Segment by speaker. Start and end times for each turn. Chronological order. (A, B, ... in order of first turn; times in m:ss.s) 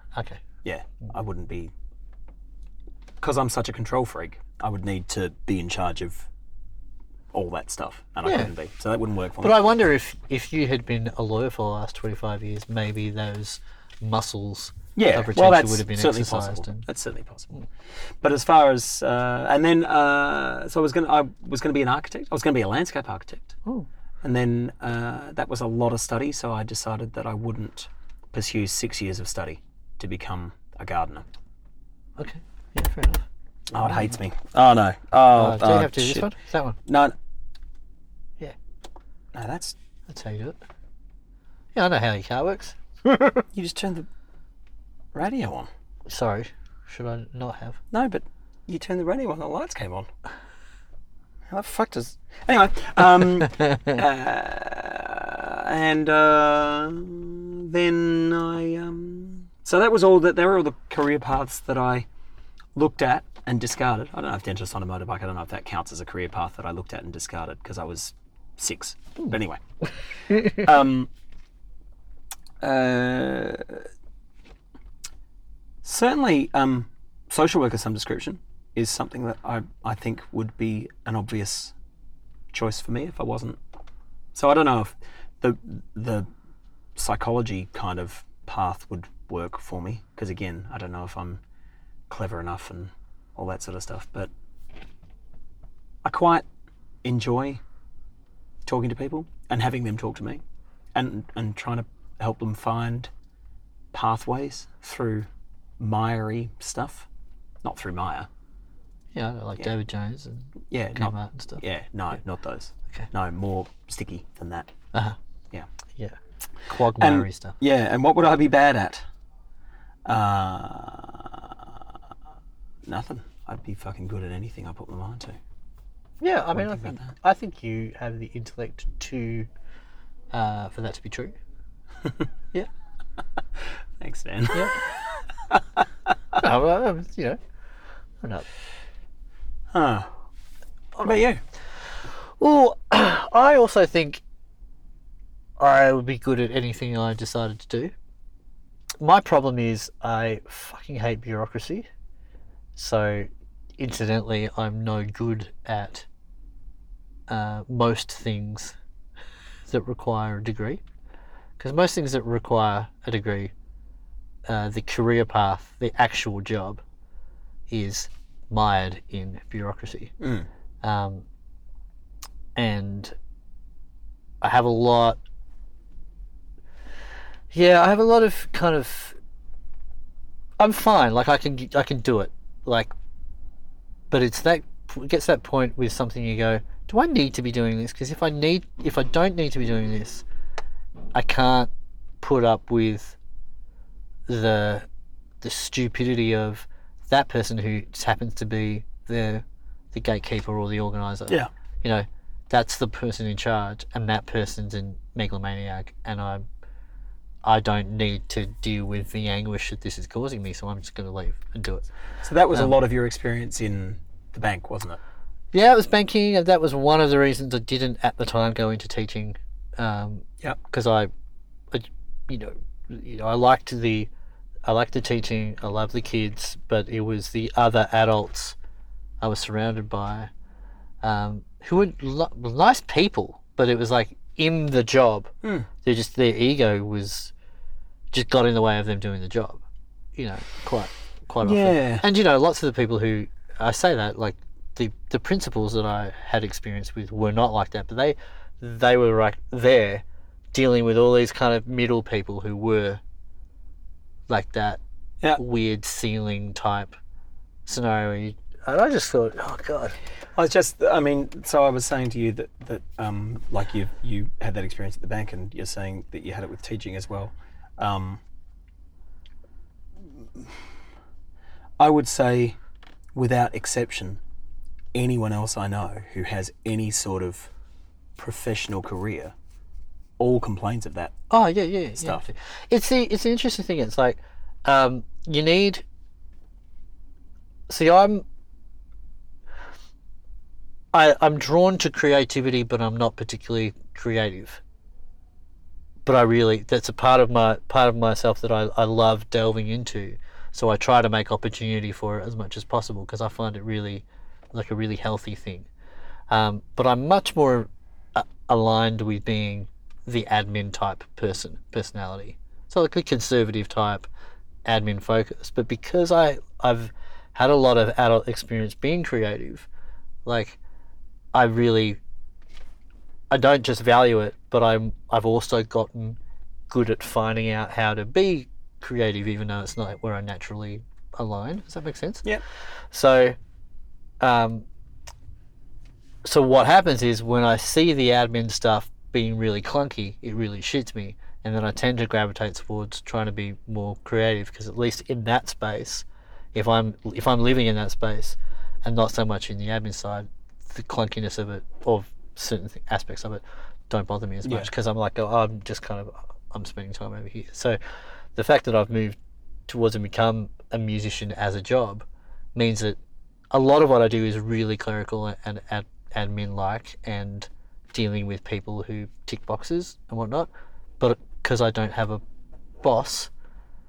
0:00.2-0:00.4 A
0:00.6-0:01.7 B
0:03.2-0:06.3 B
0:07.3-0:09.6 B
0:08.2-0:08.5 A
0:09.4-0:16.9 A
0:15.0-0:17.5 B
0:18.2-0:23.6 B
0:24.2-0:31.3 B
0:32.2-0:33.3 A
0:33.7-0:36.3 B
0:33.8-0:34.1 A
0:35.4-0:36.8 A
0:36.9-0:37.2 B
0:39.3-0:39.8 B
0:40.1-0:40.6 A
0:41.8-0:43.4 A
0:43.5-0:44.1 B
0:45.1-0:45.7 B
0:46.1-0:47.8 A
0:47.9-0:50.1 B
0:51.5-1:02.1 B
1:02.8-1:09.6 B
1:10.3-1:11.1 B
1:12.6-1:13.8 B
1:15.8-1:21.7 B
1:22.5-1:23.6 B
1:24.3-1:26.3 B
1:27.0-1:31.4 B
1:32.1-1:34.3 B
1:36.0-1:36.4 B
1:37.0-1:37.6 B
1:38.6-1:40.4 B
1:40.9-1:43.1 B
1:43.9-1:45.3 B
1:45.8-1:47.1 B
1:47.6-1:48.3 B
1:49.1-1:51.6 A
1:50.7-1:54.7 B
1:56.0-1:57.6 A
1:57.0-1:59.0 B
2:00.0-2:01.8 B
2:02.8-2:05.4 B
2:06.2-2:09.5 A
2:06.5-2:07.1 B
2:10.3-2:11.4 A
2:14.0-2:14.9 B
2:15.5-2:15.9 B
2:16.4-2:17.4 A
2:19.7-2:20.1 B
2:21.0-2:21.4 B
2:22.1-2:24.2 A
2:25.6-2:27.9 A
2:29.0-2:31.9 A
2:32.8-2:36.1 A
2:37.3-2:38.8 A
2:39.7-2:40.8 A
2:41.6-2:43.5 A
2:44.5-2:46.8 A
2:47.7-2:50.1 A
2:50.2-2:50.5 B
2:50.8-2:51.3 A
2:52.6-2:53.2 A
2:54.4-2:55.2 A
2:57.5-2:59.2 A
3:00.6-3:02.9 A
3:04.1-3:10.2 A
3:11.1-3:13.2 A
3:14.3-3:14.9 A
3:15.4-3:26.5 A
3:27.4-3:31.9 A
3:32.2-3:35.0 B
3:32.5-3:32.8 A
3:35.5-3:41.1 A
3:41.7-3:44.1 A
3:44.6-3:48.6 A
3:49.2-3:50.3 A
3:51.0-3:55.3 A
3:55.8-3:57.3 A
3:58.1-3:59.6 A
4:00.2-4:13.0 A
4:01.4-4:02.0 B
4:14.3-4:14.8 A
4:15.4-4:17.0 A
4:17.7-4:20.0 A
4:20.4-4:28.2 B
4:31.8-4:32.6 B
4:33.1-4:34.2 B
4:34.9-4:37.5 B
4:38.2-4:39.3 B
4:40.2-4:41.1 B
4:41.3-4:45.8 A
4:42.0-4:42.2 B
4:47.7-4:48.2 A
4:50.9-4:54.6 A
4:56.0-5:05.7 A
5:06.3-5:14.1 A
5:14.6-5:19.7 A
5:20.3-5:20.6 A
5:21.3-5:22.0 A
5:23.3-5:26.2 A
5:26.7-5:32.3 A
5:32.9-5:33.4 A
5:34.2-5:34.7 A
5:36.2-5:57.8 A
5:54.4-5:54.7 B
5:58.4-6:03.0 A
6:03.5-6:10.5 A
6:11.0-6:12.2 A
6:12.8-6:13.3 A